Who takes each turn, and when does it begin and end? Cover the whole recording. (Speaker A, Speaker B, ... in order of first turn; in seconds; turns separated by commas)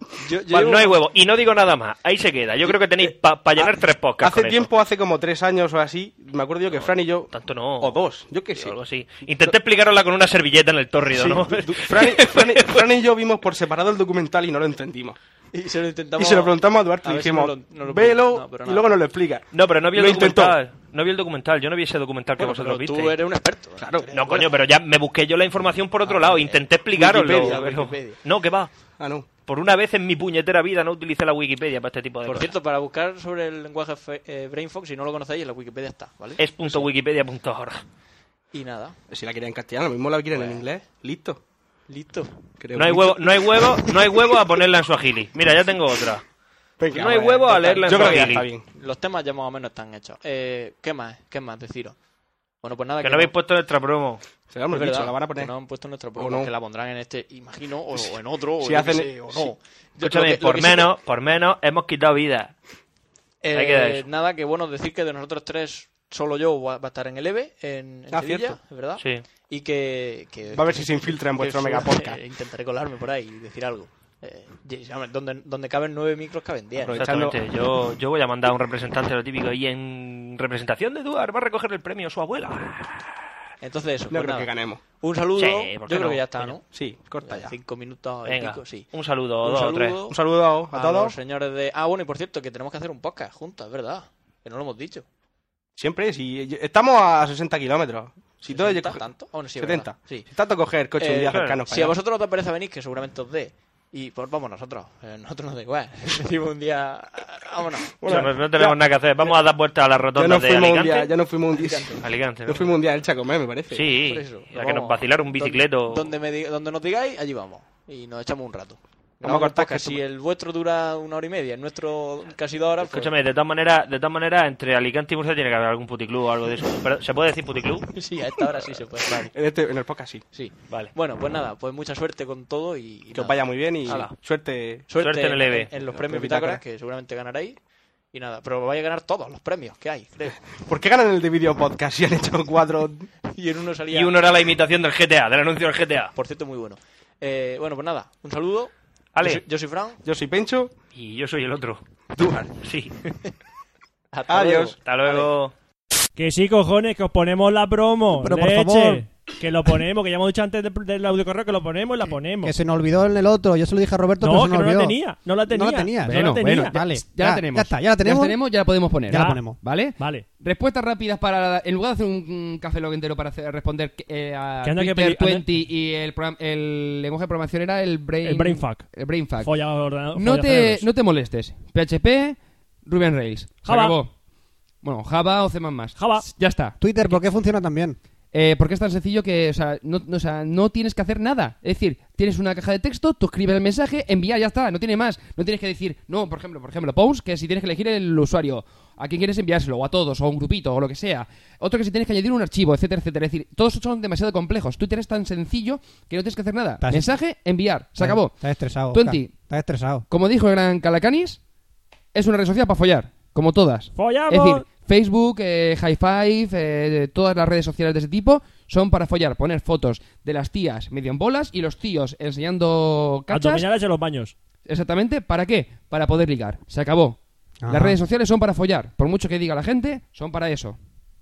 Speaker A: 0.2-1.0, Speaker B: 0.5-4.7, Speaker C: 2.7-9.6, Speaker B: 6.7-8.0, Speaker B: 8.6-12.9, Speaker C: 11.1-15.2, Speaker A: 15.5-18.9, Speaker C: 16.2-20.6, Speaker B: 19.5-23.2, Speaker A: 22.4-24.5, Speaker C: 23.8-24.1, Speaker B: 24.1-28.7, Speaker A: 26.0-28.2, Speaker C: 26.9-27.7, Speaker C: 29.0-29.3, Speaker B: 29.4-32.5, Speaker A: 32.2-36.9, Speaker B: 36.4-37.8, Speaker A: 38.5-39.0, Speaker C: 39.1-41.4, Speaker A: 40.3-40.6, Speaker A: 41.9-42.4, Speaker C: 42.6-44.4, Speaker B: 42.8-46.2, Speaker C: 46.8-48.7, Speaker B: 46.9-48.5, Speaker A: 47.4-52.0, Speaker A: 52.6-53.3, Speaker B: 53.0-54.2, Speaker C: 54.5-55.5, Speaker A: 54.7-60.9, Speaker C: 56.2-56.5, Speaker C: 58.6-59.5, Speaker B: 60.0-62.5, Speaker A: 63.4-77.1, Speaker B: 63.5-64.1, Speaker C: 68.1-68.6, Speaker B: 69.0-69.2, Speaker C: 70.5-72.2, Speaker C: 76.8-77.4, Speaker B: 76.9-83.1, Speaker A: 83.6-86.7, Speaker C: 84.1-84.8, Speaker B: 85.4-86.6, Speaker C: 86.7-87.5, Speaker A: 87.2-95.0, Speaker B: 88.2-90.0, Speaker C: 90.1-91.2, Speaker C: 95.8-99.0, Speaker A: 98.5-100.3, Speaker C: 99.6-102.0, Speaker A: 101.0-108.2, Speaker B: 101.3-101.7, Speaker C: 108.0-109.4, Speaker B: 108.1-111.1, Speaker C: 110.2-113.9, Speaker A: 111.5-112.0, Speaker B: 112.0-112.8, Speaker B: 113.7-116.1, Speaker A: 114.0-123.2, Speaker C: 119.2-120.0, Speaker B: 122.9-127.9, Speaker A: 127.9-129.3, Speaker C: 129.3-130.2, Speaker A: 130.3-134.1, Speaker C: 133.1-134.9, Speaker B: 133.9-134.2, Speaker A: 134.9-137.6, Speaker B: 134.9-135.7, Speaker C: 136.0-136.6, Speaker A: 138.1-140.4, Speaker C: 140.6-143.1, Speaker A: 143.3-144.2, Speaker B: 143.9-146.1, Speaker A: 146.2-150.0, Speaker B: 149.2-149.4, Speaker C: 150.0-150.7, Speaker B: 150.9-151.8, Speaker C: 152.1-152.5, Speaker B: 152.6-153.0, Speaker A: 154.1-155.3, Speaker C: 154.3-154.8, Speaker B: 154.8-155.5, Speaker D: 156.2-162.5, Speaker E: 158.2-159.1, Speaker E: 162.4-168.4, Speaker D: 164.2-166.8, Speaker F: 166.1-179.5, Speaker E: 169.1-169.6, Speaker D: 169.1-169.4, Speaker D: 170.0-170.2, Speaker D: 174.6-175.5, Speaker D: 178.2-178.9, Speaker D: 179.4-180.9, Speaker F: 180.1-184.1, Speaker D: 183.7-183.9, Speaker F: 184.8-186.8, Speaker D: 186.0-186.3, Speaker E: 186.8-188.0, Speaker F: 188.3-208.4, Speaker E: 206.8-207.1, Speaker E: 208.0-210.1, Speaker F: 208.9-209.3, Speaker F: 210.1-211.4, Speaker F: 212.1-223.7, Speaker D: 213.9-214.7, Speaker D: 223.3-224.3, Speaker F: 224.7-230.8, Speaker E: 227.6-228.0